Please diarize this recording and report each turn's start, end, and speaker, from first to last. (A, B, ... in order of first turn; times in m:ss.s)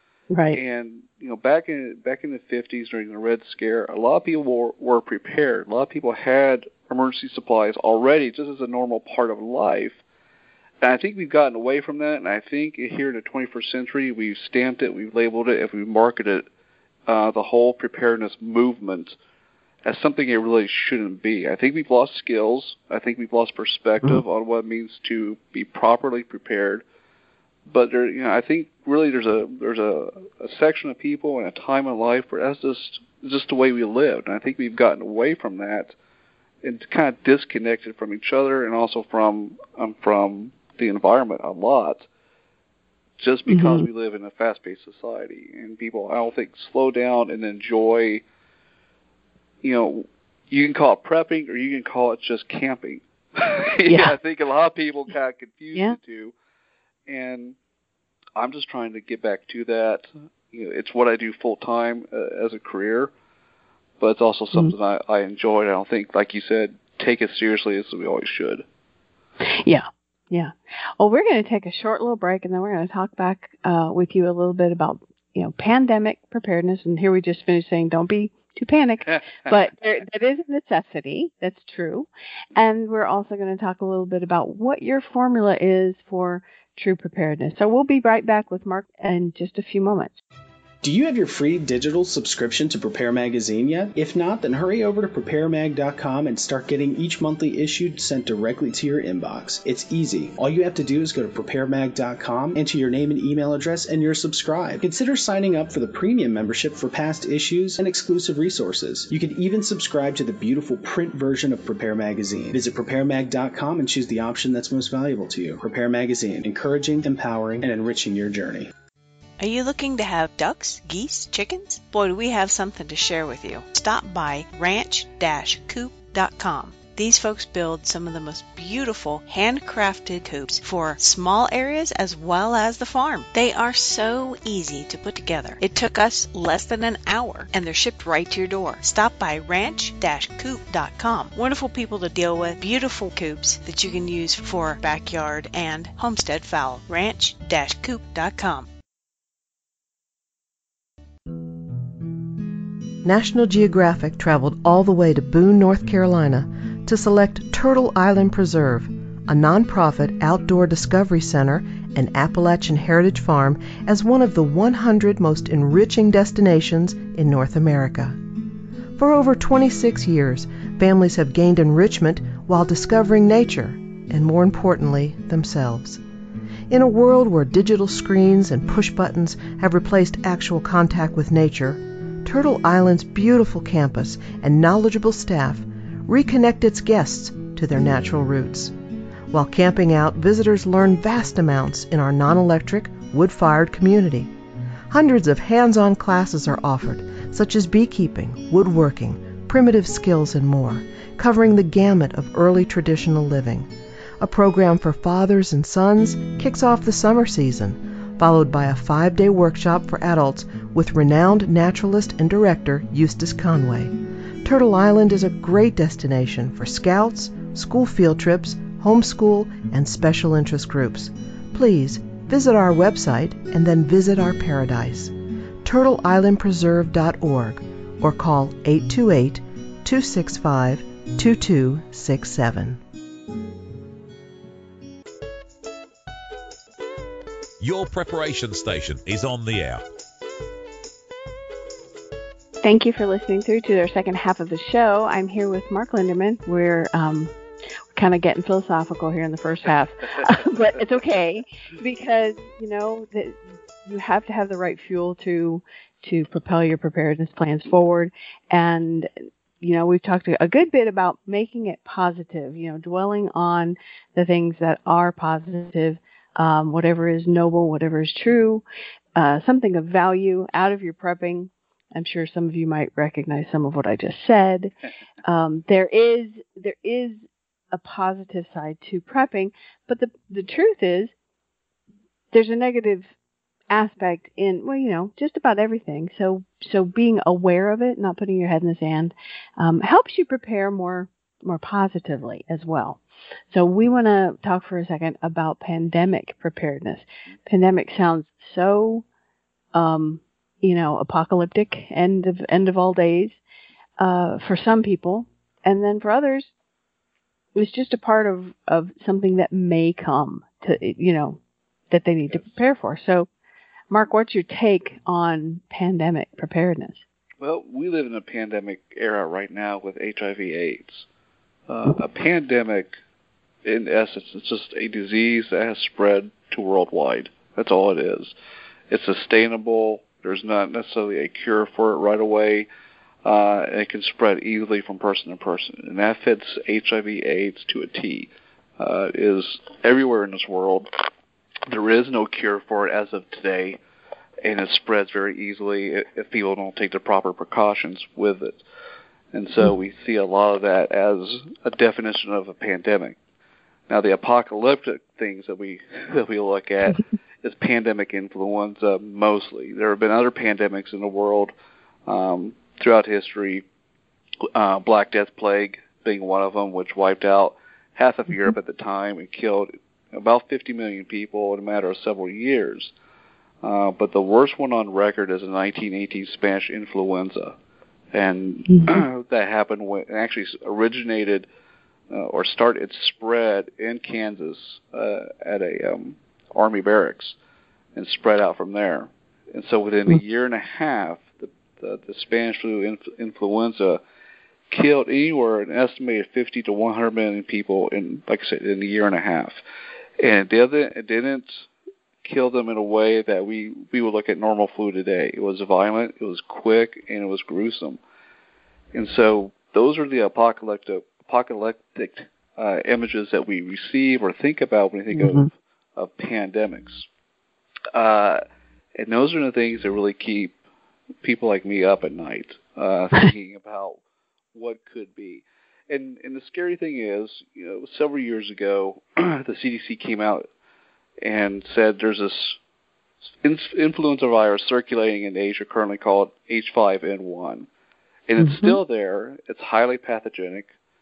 0:00.3-0:00.6 A
0:00.5-0:10.0 B
0:10.8-0:16.5 B
0:17.1-0:19.2 B
0:19.8-0:26.8 B
0:27.7-0:35.9 B
0:36.6-0:42.1 B
0:43.2-0:48.2 B
0:43.5-0:43.9 A
0:49.6-0:56.3 B
0:53.9-0:54.2 A
0:57.1-0:57.6 B
0:58.4-1:03.1 B
1:04.0-1:08.6 B
1:09.4-1:30.2 A
1:19.1-1:19.5 B
1:30.8-1:58.7 C
1:59.4-2:28.7 D
2:33.0-2:48.2 E
2:49.0-2:56.0 E
2:56.7-3:08.7 E
3:09.3-3:14.3 E
3:14.9-3:23.7 E
3:24.2-3:52.8 E
3:57.6-3:59.8 F
4:02.6-4:07.4 A
4:07.9-4:19.1 A
4:19.6-4:28.6 A
4:29.2-4:34.7 A
4:35.2-4:41.1 A
4:42.3-4:43.1 A
4:43.7-4:59.0 A
4:59.7-5:03.4 A
5:04.0-5:06.5 A
5:07.6-5:11.4 A
5:11.9-5:13.3 A
5:13.9-5:17.0 A
5:17.4-5:21.1 B
5:21.7-5:23.0 B
5:23.6-5:28.3 B
5:28.9-5:32.7 B
5:33.2-5:40.9 B
5:41.7-5:43.8 B
5:44.4-5:48.6 B
5:49.3-5:53.2 B
5:53.9-6:01.5 B
6:02.1-6:03.6 B
6:04.5-6:12.9 B
6:13.6-6:17.6 B
6:18.1-6:21.5 B
6:22.1-6:27.4 B
6:28.0-6:34.0 B
6:34.7-6:39.6 B
6:40.2-6:41.7 B
6:42.2-6:48.0 B
6:48.9-6:57.1 B
6:55.1-6:55.5 A
6:57.9-6:58.4 B
6:59.0-7:00.6 B
7:01.2-7:04.0 B
7:04.5-7:10.5 B
7:11.2-7:12.6 B
7:13.4-7:17.7 B
7:18.3-7:20.7 B
7:18.4-7:18.8 A